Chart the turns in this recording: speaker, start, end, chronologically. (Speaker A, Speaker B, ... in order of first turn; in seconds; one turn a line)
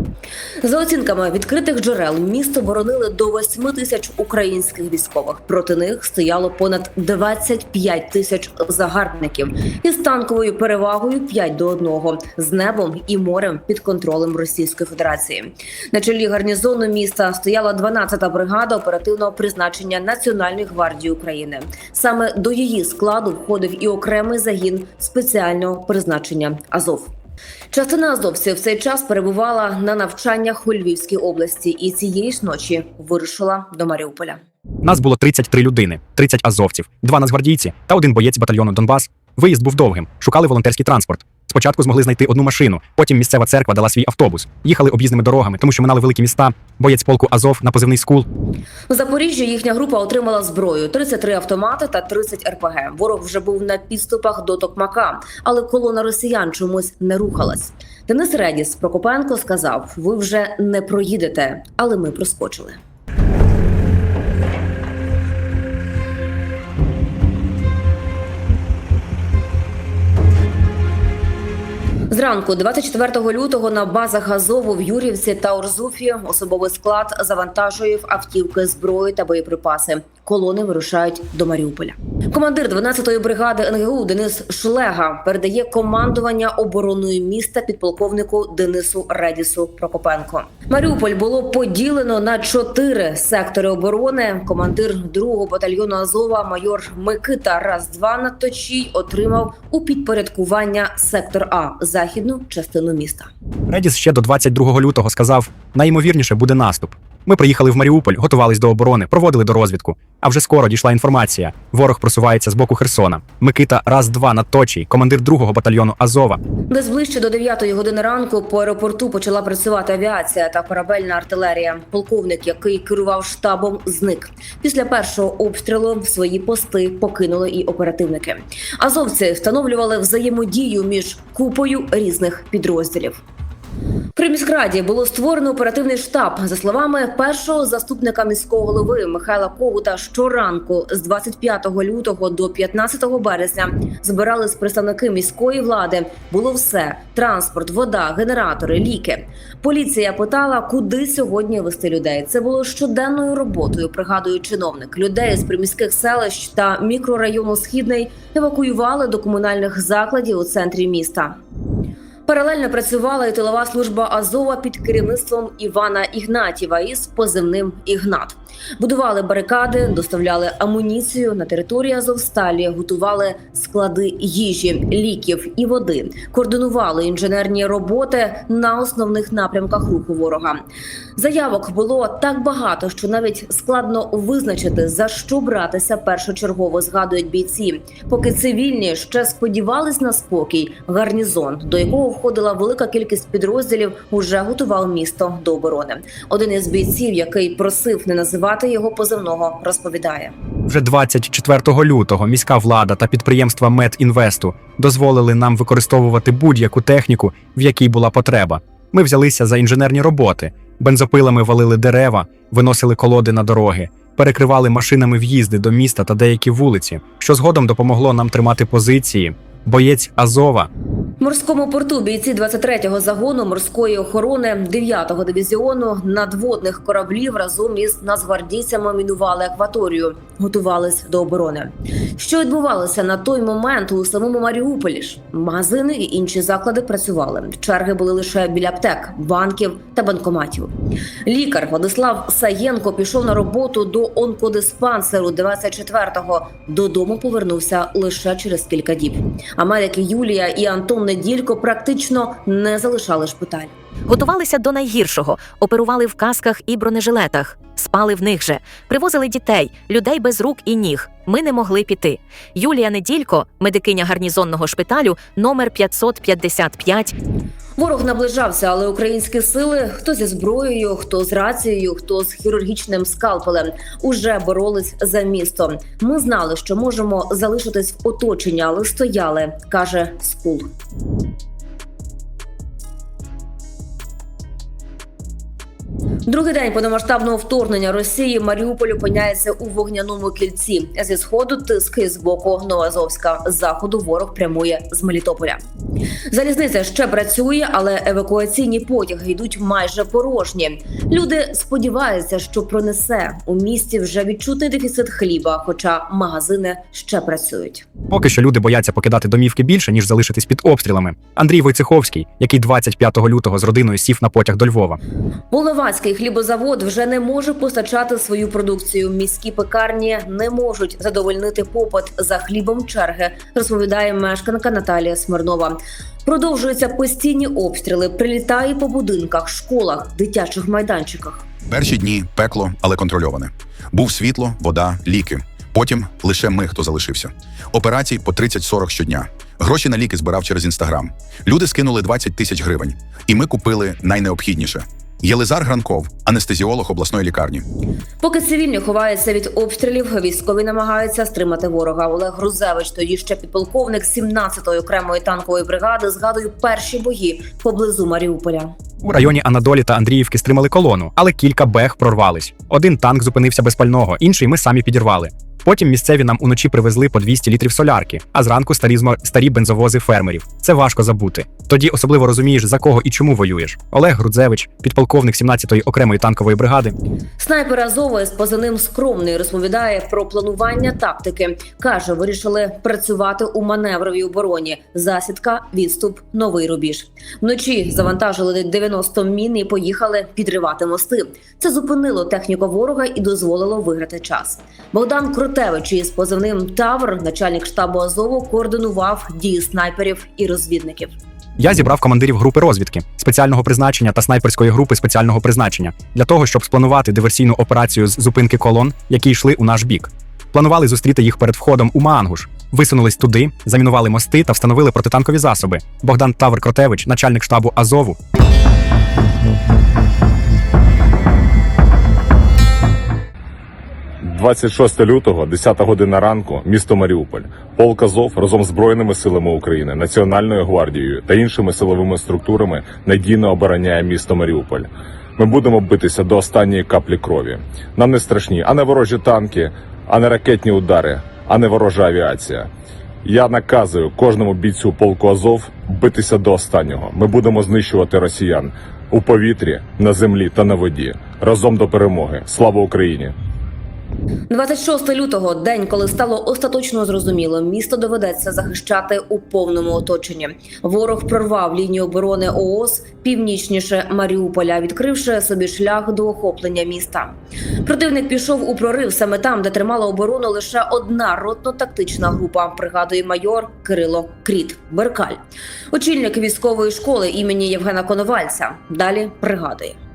Speaker A: 0.6-27.1
Speaker A: 27.7-34.4
Speaker B: 34.8-48.3
Speaker A: 48.9-62.8
Speaker A: 72.1-103.3
Speaker B: 103.7-116.4
Speaker A: 116.7-133.2
Speaker A: 134.2-161.4
Speaker A: 162.3-180.6
Speaker A: 181.2-200.3
Speaker B: 200.7-220.7
Speaker A: 221.2-240.7
Speaker A: 241.3-253.7
Speaker C: 254.1-267.1
Speaker A: 267.8-280.7
Speaker A: 286.3-295.6
Speaker A: 296.3-307.9
Speaker B: 308.1-315.0
Speaker A: 315.5-331.4
Speaker D: 331.7-347.6
Speaker A: 348.2-358.7
Speaker B: 359.0-376.9
Speaker A: 377.4-401.2
Speaker B: 401.6-418.2
Speaker E: 424.2-442.7
Speaker E: 443.2-453.3
Speaker A: 454.5-475.4
Speaker A: 475.9-480.0